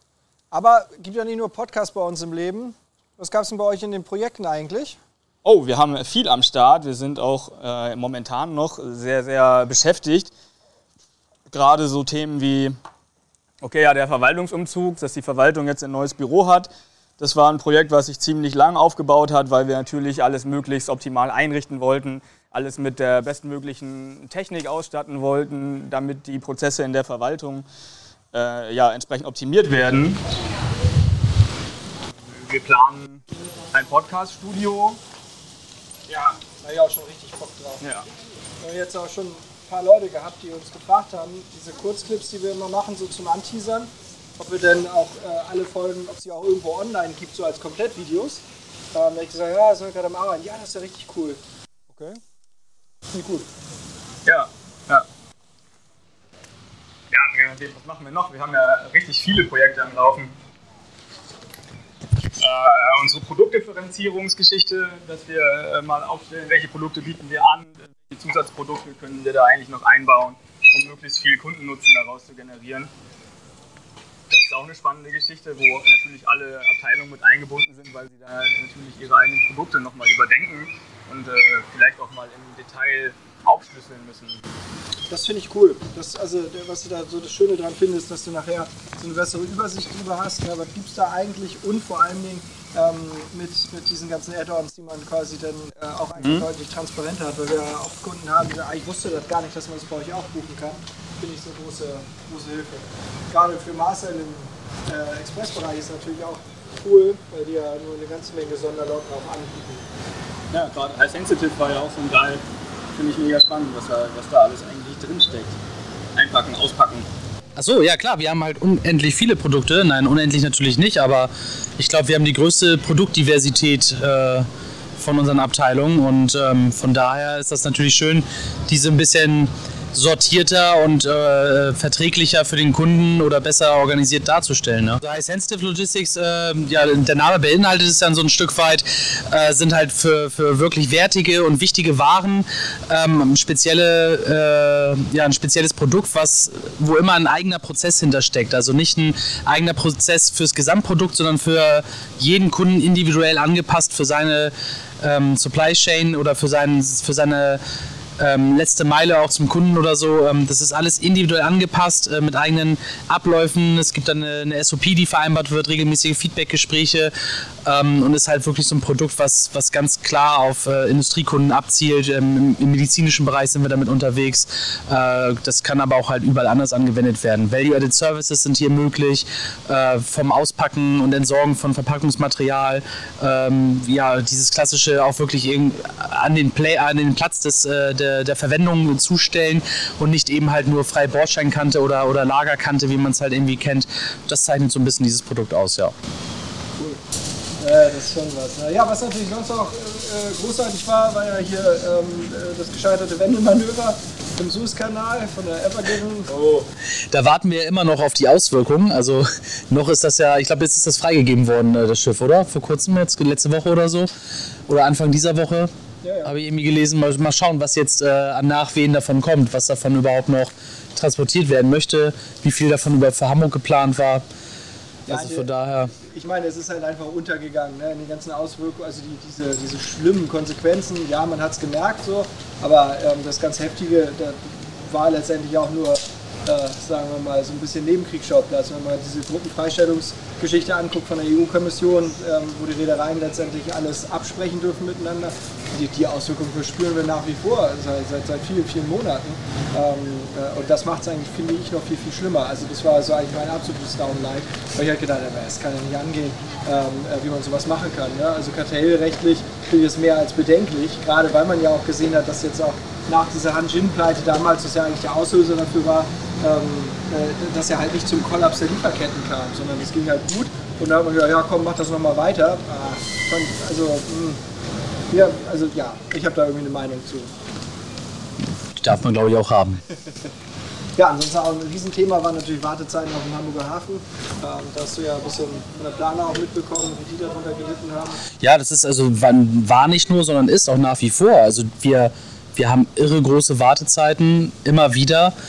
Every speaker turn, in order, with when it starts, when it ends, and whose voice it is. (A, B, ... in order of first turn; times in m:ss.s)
0:00.5-0:05.0 A
0:05.4-0:10.3 B
0:11.5-0:12.8 B
0:13.6-0:27.6 B
0:28.3-0:30.2 B
0:32.2-0:35.0 B
0:36.4-0:37.8 A
0:37.8-0:38.1 B
0:38.6-0:48.4 A
0:48.9-0:52.2 A
0:53.1-0:53.5 A
0:54.2-0:55.1 B
0:57.1-1:00.4 B
1:02.4-1:12.9 B
1:14.3-1:24.4 B
1:25.1-1:49.9 A
1:36.2-1:36.5 B
1:50.5-1:52.4 B
1:52.9-1:55.6 B
1:56.2-1:57.1 B
1:57.6-2:37.6 C
2:38.2-2:47.1 C
2:47.6-3:16.0 C
3:17.6-3:26.3 A
3:26.3-3:26.7 B
3:27.1-3:34.1 C
3:34.7-3:35.7 C
3:36.0-3:36.4 A
3:36.2-3:44.2 C
3:45.1-4:34.4 A
3:45.1-3:45.9 C
4:35.1-4:37.3 A
4:38.7-4:39.8 C
4:41.0-4:48.2 A
4:48.4-4:55.3 C